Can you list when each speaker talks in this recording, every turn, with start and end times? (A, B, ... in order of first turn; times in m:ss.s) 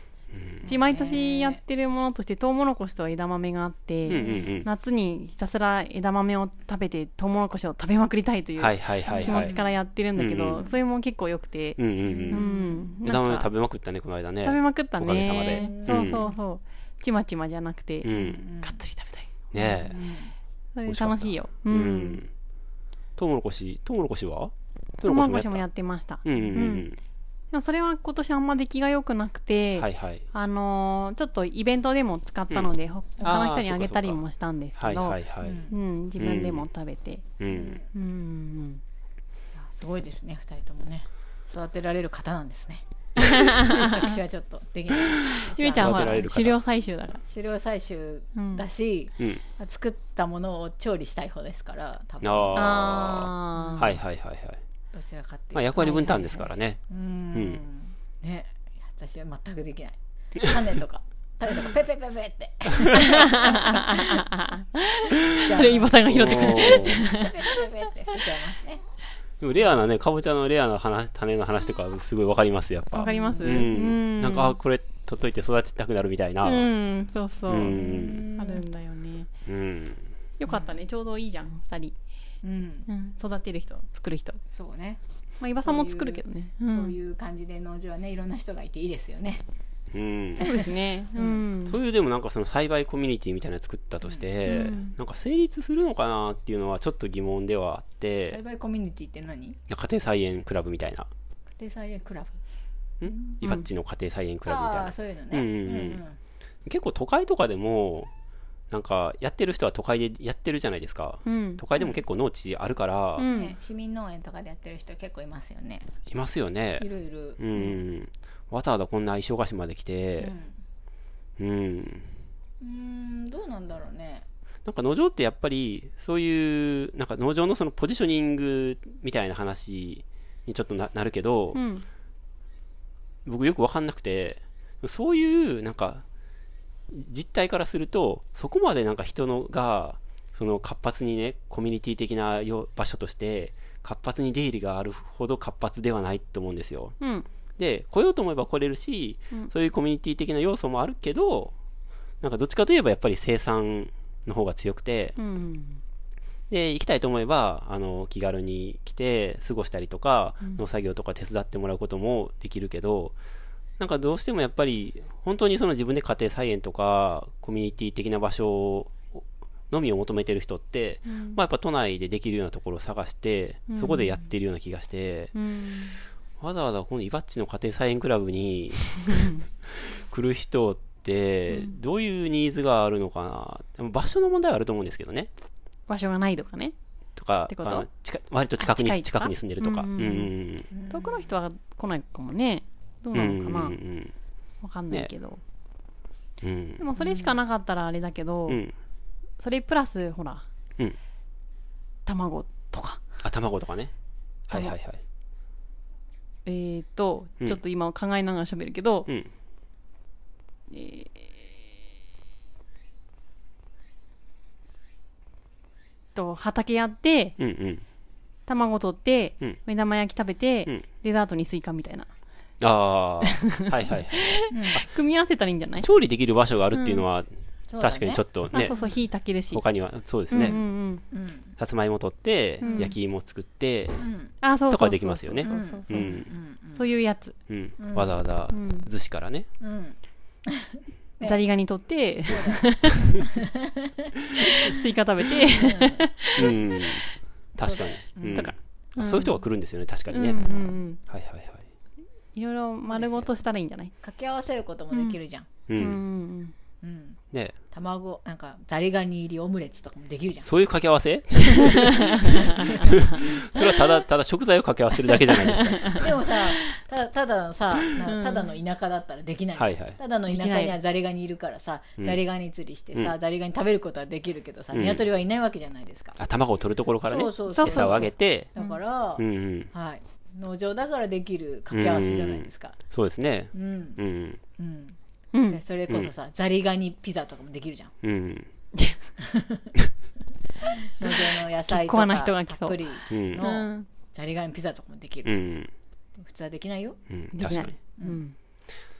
0:00.3-0:00.6 A
0:00.6-0:13.5 B
0:00.6-0:01.6 C
0:04.1-0:04.7 A
0:04.1-0:04.6 C
0:08.6-0:09.5 A
0:09.1-0:09.7 C
0:10.2-0:10.6 A
0:11.8-0:16.2 A
0:12.0-0:12.9 C
0:14.4-0:20.0 B
0:15.6-0:16.3 C
0:18.0-0:18.4 A
0:18.1-0:18.8 C
0:19.5-0:20.0 A
0:19.9-0:20.3 C
0:20.8-0:22.2 B
0:20.9-0:22.3 A
0:23.2-0:25.6 A
0:25.0-0:26.9 B
0:26.2-0:27.0 A
0:27.5-0:37.4 B
0:29.8-0:30.2 A
0:32.5-0:34.2 A
0:34.8-0:35.6 A
0:35.4-0:35.7 C
0:36.2-0:36.7 A
0:37.4-0:37.8 A
0:37.5-0:37.8 C
0:37.9-0:38.8 B
0:39.6-0:46.3 C
0:43.2-0:44.1 B
0:44.9-0:45.2 A
0:45.2-0:47.2 B
0:45.8-0:46.6 A
0:47.2-0:52.8 C
0:48.3-0:48.6 B
0:52.2-0:54.6 A
0:52.6-0:54.0 B
0:53.5-0:54.0 C
0:54.9-0:56.3 C
0:55.5-0:56.8 A
0:55.8-0:56.4 B
0:56.9-1:04.2 C
0:57.3-0:57.6 A
1:02.9-1:07.7 B
1:05.3-1:08.8 C
1:06.0-1:07.0 A
1:09.4-1:16.7 A
1:12.9-1:14.6 B
1:13.0-1:13.7 C
1:16.4-1:19.3 B
1:17.5-1:18.3 A
1:17.7-1:18.6 C
1:19.4-1:20.1 A
1:20.4-1:21.9 B
1:20.5-1:20.8 C
1:22.4-1:22.9 C
1:22.9-1:24.4 B
1:24.5-1:25.0 C
1:25.4-1:26.9 B
1:25.6-1:29.4 C
1:29.9-1:30.5 A
1:30.4-1:31.4 C
1:30.4-1:31.8 B
1:31.2-1:38.4 A
1:34.4-1:34.9 B
1:38.3-1:39.6 C
1:39.7-1:41.1 A
1:41.6-1:42.4 C
1:43.0-1:46.0 A
1:43.0-1:43.3 C
1:44.4-1:46.2 C
1:46.6-1:48.1 A
1:48.7-1:53.3 A
1:51.2-1:51.6 B
1:53.2-1:53.5 B
1:53.3-1:55.9 C
1:56.1-1:56.9 A
1:56.8-1:57.8 C
1:57.4-2:00.3 A
2:00.2-2:00.5 C
2:01.4-2:02.1 A
2:02.6-2:04.2 C
2:04.6-2:11.6 A
2:11.5-2:11.8 B
2:13.2-2:16.0 A
2:16.9-2:26.9 A
2:27.0-2:27.2 B
2:27.6-2:31.5 A
2:32.2-2:35.2 A
2:35.2-2:35.8 B
2:36.5-2:43.1 A
2:43.8-2:55.3 A
2:51.0-2:51.4 B
2:53.7-2:54.2 B
2:55.3-2:55.9 B
2:56.4-3:05.3 A
2:59.0-2:59.4 B
3:01.5-3:01.8 B
3:05.9-3:06.7 B
3:07.2-3:10.7 A
3:07.5-3:07.9 B
3:08.6-3:13.8 B
3:10.7-3:11.3 C
3:13.1-3:14.1 A
3:14.6-3:15.4 B
3:16.4-3:16.8 A
3:16.8-3:18.6 B
3:17.0-3:17.3 C
3:18.5-3:18.7 A
3:19.4-3:20.4 B
3:22.0-3:23.0 B
3:23.2-3:23.9 A
3:24.5-3:25.0 A
3:26.4-3:29.1 B
3:30.7-3:31.5 B
3:36.1-3:37.4 B
3:37.4-3:37.8 A
3:38.5-3:42.1 B
3:42.6-3:44.8 A
3:43.2-3:45.9 B
3:44.5-3:44.8 C
3:45.8-3:47.3 A
3:46.7-3:47.0 B
3:47.7-3:48.9 C
3:47.8-3:48.7 A
3:48.5-3:49.6 B
3:49.5-3:50.6 A
3:50.3-3:51.0 B
3:51.1-3:51.5 C
3:51.6-3:54.0 A
3:52.6-3:52.9 B
3:52.6-3:52.9 C
3:54.0-3:54.3 C
3:54.4-3:56.2 B
3:54.7-3:56.3 A
3:55.4-3:56.8 C
3:56.8-3:57.4 B
3:57.5-3:59.5 A
3:57.8-3:58.2 C
3:58.5-3:58.9 B
3:59.6-4:01.4 C
4:01.2-4:03.2 B
4:02.2-4:03.2 A
4:02.3-4:04.8 C
4:04.4-4:06.6 B
4:05.5-4:06.6 C
4:06.4-4:07.0 A
4:07.6-4:10.4 A
4:07.6-4:08.5 C
4:08.3-4:09.4 B
4:10.1-4:11.0 B
4:10.4-4:10.7 C
4:11.0-4:11.7 A
4:12.3-4:13.9 B
4:12.9-4:13.3 C
4:14.0-4:15.5 C
4:14.9-4:15.2 B
4:15.7-4:16.0 A
4:15.8-4:16.5 B
4:16.8-4:17.2 C
4:17.7-4:20.6 C
4:20.4-4:26.1 A
4:21.5-4:23.6 C
4:21.5-4:23.8 B
4:25.1-4:26.8 B
4:25.9-4:36.2 C
4:28.0-4:28.5 B
4:29.6-4:30.0 A
4:30.3-4:30.8 B
4:34.7-4:35.0 A
4:36.2-4:38.5 A
4:37.0-4:42.8 C
4:37.5-4:38.8 B
4:39.2-4:39.7 A
4:41.7-4:44.4 A
4:43.5-4:44.0 C
4:44.6-4:45.0 C
4:45.3-4:45.6 B
4:45.5-4:47.9 C
4:48.0-4:48.5 A
4:49.2-4:49.7 C
4:50.6-4:55.4 C
4:51.1-4:52.8 B
4:53.1-4:53.4 A
4:53.4-4:53.9 B
4:55.2-4:55.7 A
4:56.2-4:57.0 C
4:57.1-4:57.8 A
4:57.3-4:58.4 B
4:57.8-4:58.2 C